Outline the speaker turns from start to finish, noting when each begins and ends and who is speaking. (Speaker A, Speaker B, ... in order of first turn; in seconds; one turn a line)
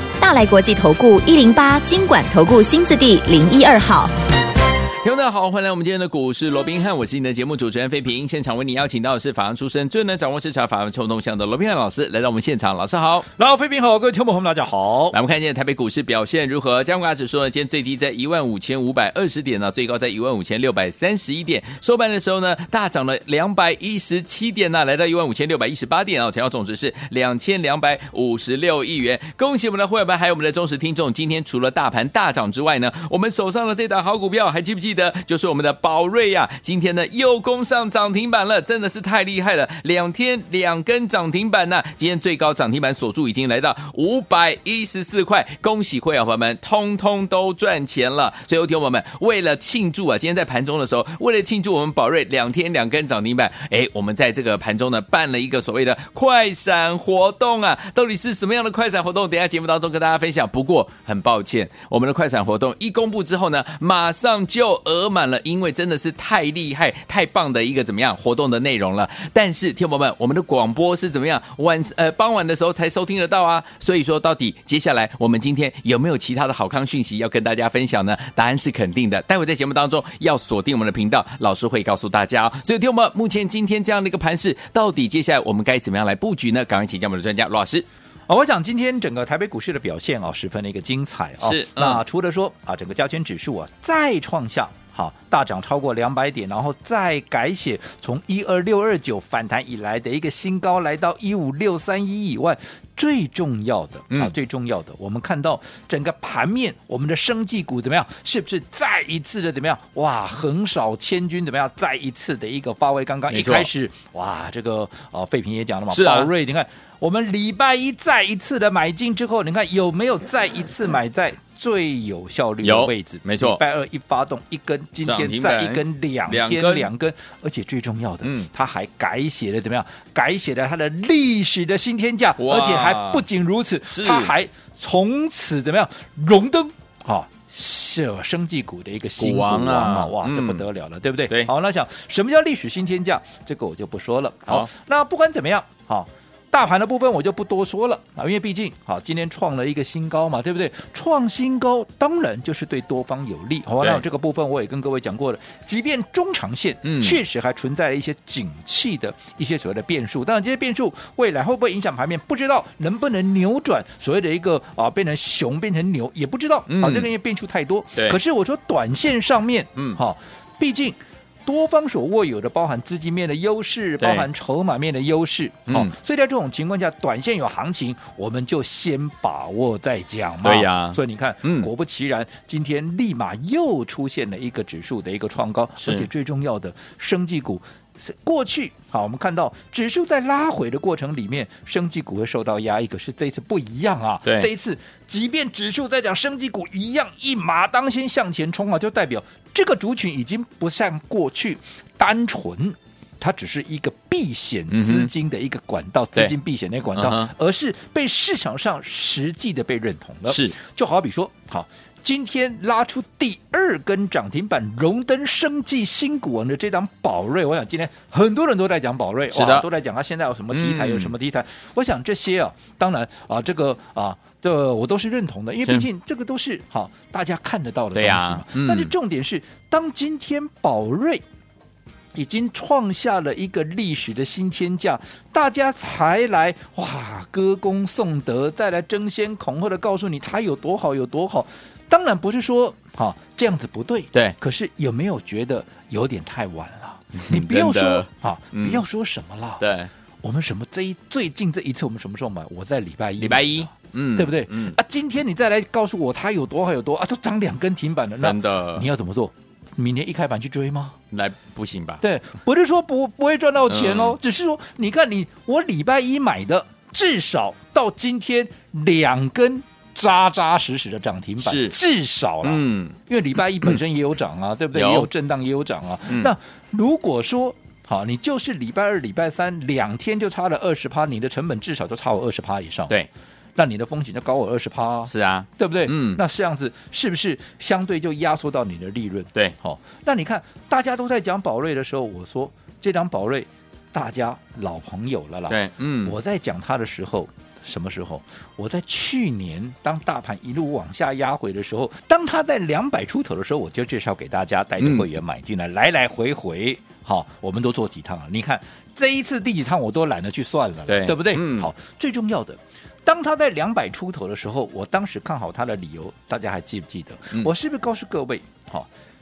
Speaker A: 0.2-4.1
Speaker B: 5.0-13.3
Speaker C: 13.4-15.2
Speaker B: 15.1-87.8
Speaker C: 88.3-231.2
Speaker B: 91.4-92.0
Speaker B: 113.3-113.7
Speaker B: 115.9-116.3
Speaker B: 122.6-123.6
Speaker B: 125.0-126.9
Speaker B: 128.2-128.5
Speaker B: 132.4-133.2
Speaker B: 133.9-134.3
Speaker B: 139.2-140.7
Speaker B: 156.8-157.2
Speaker B: 166.7-167.1
Speaker B: 174.0-174.3
Speaker B: 180.4-181.7
Speaker B: 185.8-186.1
Speaker B: 204.7-205.1
Speaker B: 206.9-207.3
Speaker B: 210.3-210.6
Speaker B: 219.3-219.7
Speaker B: 220.5-221.1
Speaker B: 227.9-228.9
Speaker C: 232.1-249.7
Speaker B: 247.1-248.8
Speaker B: 249.6-249.9
Speaker C: 250.2-261.0
Speaker B: 253.2-254.8
Speaker B: 258.2-258.9
Speaker B: 261.1-262.0
Speaker C: 262.0-283.0
Speaker B: 263.7-264.2
Speaker B: 271.4-271.8
Speaker B: 272.4-273.0
Speaker B: 274.7-275.1
Speaker B: 276.1-276.3
Speaker C: 283.6-318.9
Speaker B: 285.1-286.2
Speaker B: 295.5-296.1
Speaker B: 304.8-305.1
Speaker B: 310.9-311.7